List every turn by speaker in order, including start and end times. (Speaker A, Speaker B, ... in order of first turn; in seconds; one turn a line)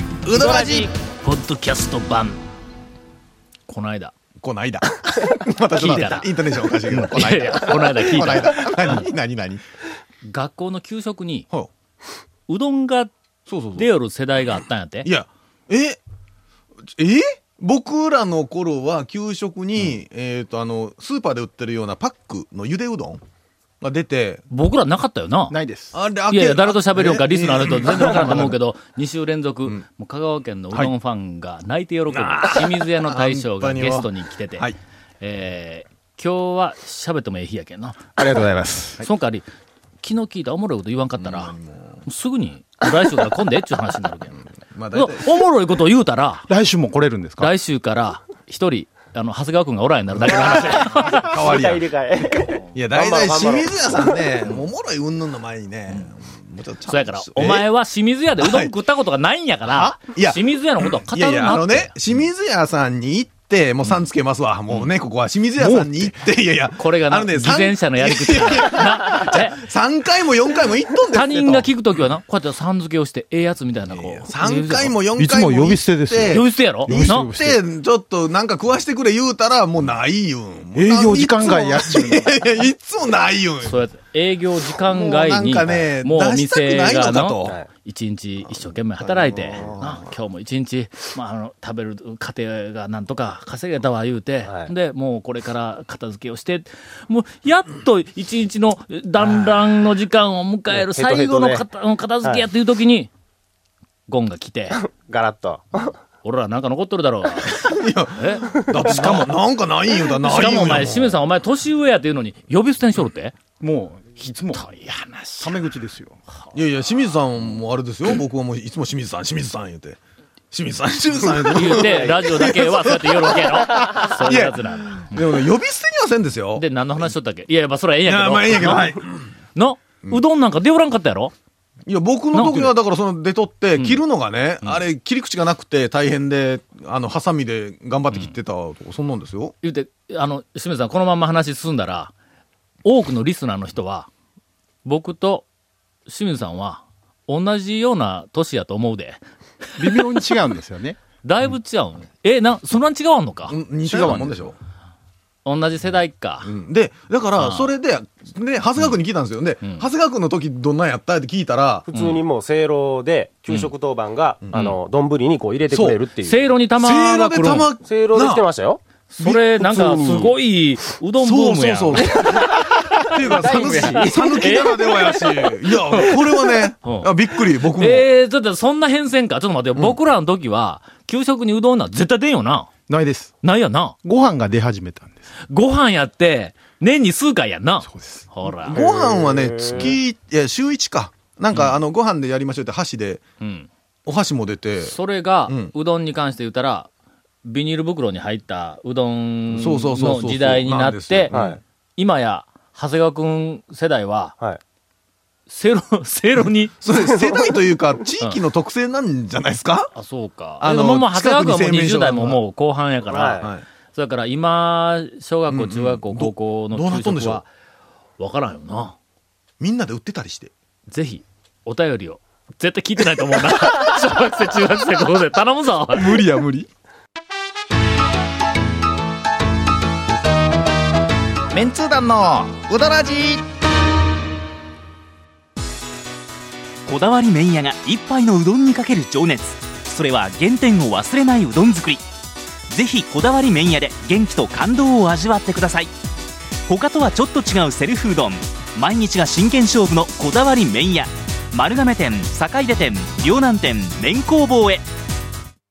Speaker A: 0.2-0.9
Speaker B: 0.3-2.4
Speaker B: 3.7-4.1
Speaker A: 4.4-9.6
Speaker B: 5.7-9.0
Speaker B: 10.3-11.5
Speaker B: 12.5-13.1
Speaker A: 13.5-13.9
Speaker B: 13.8-15.1
Speaker A: 15.0-16.0
Speaker A: 16.9-23.2
Speaker A: 23.8-24.4
Speaker B: 24.5-25.6
Speaker C: 25.5-26.0
Speaker A: 25.9-28.6
Speaker B: 26.3-34.7
Speaker A: 32.1-34.8
Speaker B: 35.2-38.2
Speaker C: 38.2-39.0
Speaker B: 39.0-39.5
Speaker B: 40.0-41.5
Speaker A: 41.2-42.0
Speaker B: 42.1-46.5
Speaker A: 44.6-45.4
Speaker C: 46.5-47.5
Speaker B: 47.4-51.3
Speaker A: 50.2-51.9
Speaker D: 50.9-54.4
Speaker A: 52.7-57.7
Speaker B: 56.9-62.0
Speaker A: 58.4-58.7
Speaker A: 59.7-71.7
Speaker C: 65.6-66.1
Speaker B: 66.8-69.6
Speaker B: 71.1-75.0
Speaker A: 73.8-83.8
Speaker C: 75.1-77.6
Speaker B: 76.3-77.3
Speaker C: 80.7-82.5
Speaker B: 83.6-103.1
Speaker A: 84.7-87.6
Speaker A: 89.0-90.1
Speaker D: 94.5-94.7
Speaker D: 100.7-101.7
Speaker B: 104.1-104.8
Speaker D: 104.8-105.9
Speaker B: 105.8-109.4
Speaker A: 107.4-111.0
Speaker C: 108.9-109.2
Speaker B: 110.2-113.4
Speaker C: 113.6-114.7
Speaker B: 114.5-115.6
Speaker C: 115.4-116.2
Speaker A: 116.5-120.0
Speaker A: 120.5-126.7
Speaker B: 121.5-125.4
Speaker B: 126.5-129.0
Speaker A: 128.1-129.2
Speaker B: 129.6-131.3
Speaker A: 131.9-139.5
Speaker B: 132.3-132.7
Speaker B: 139.6-142.1
Speaker B: 142.8-144.1
Speaker B: 144.8-145.5
Speaker B: 146.1-149.2
Speaker B: 149.7-150.3
Speaker C: 149.8-151.0
Speaker B: 151.2-153.6
Speaker A: 153.5-154.6
Speaker C: 153.9-154.3
Speaker B: 155.4-156.5
Speaker A: 156.4-161.9
Speaker B: 157.4-157.7
Speaker D: 161.9-166.5
Speaker B: 161.9-162.2
Speaker A: 165.7-166.0
Speaker B: 166.2-167.7
Speaker A: 166.8-168.4
Speaker D: 167.8-168.8
Speaker B: 169.1-182.7
Speaker A: 169.2-170.3
Speaker A: 171.2-178.1
Speaker C: 172.8-174.1
Speaker D: 173.3-174.5
Speaker C: 182.9-183.3
Speaker B: 183.4-184.0
Speaker C: 184.0-185.2
Speaker B: 185.5-188.8
Speaker C: 187.8-188.6
Speaker A: 188.6-193.2
Speaker D: 188.8-189.9
Speaker B: 191.5-191.8
Speaker B: 193.4-193.7
Speaker A: 194.1-194.9
Speaker B: 194.8-196.9
Speaker A: 195.5-195.7
Speaker B: 197.4-201.3
Speaker A: 199.5-201.6
Speaker D: 201.3-201.6
Speaker B: 202.0-204.4
Speaker B: 205.5-206.7
Speaker A: 206.8-209.9
Speaker B: 209.9-217.5
Speaker A: 210.6-212.4
Speaker D: 213.1-213.5
Speaker A: 215.5-217.4
Speaker B: 218.2-218.9
Speaker A: 219.6-220.5
Speaker B: 220.9-226.2
Speaker A: 225.9-226.7
Speaker C: 231.5-233.4
Speaker E: 236.9-242.0
Speaker E: 242.7-245.9
Speaker E: 246.7-254.8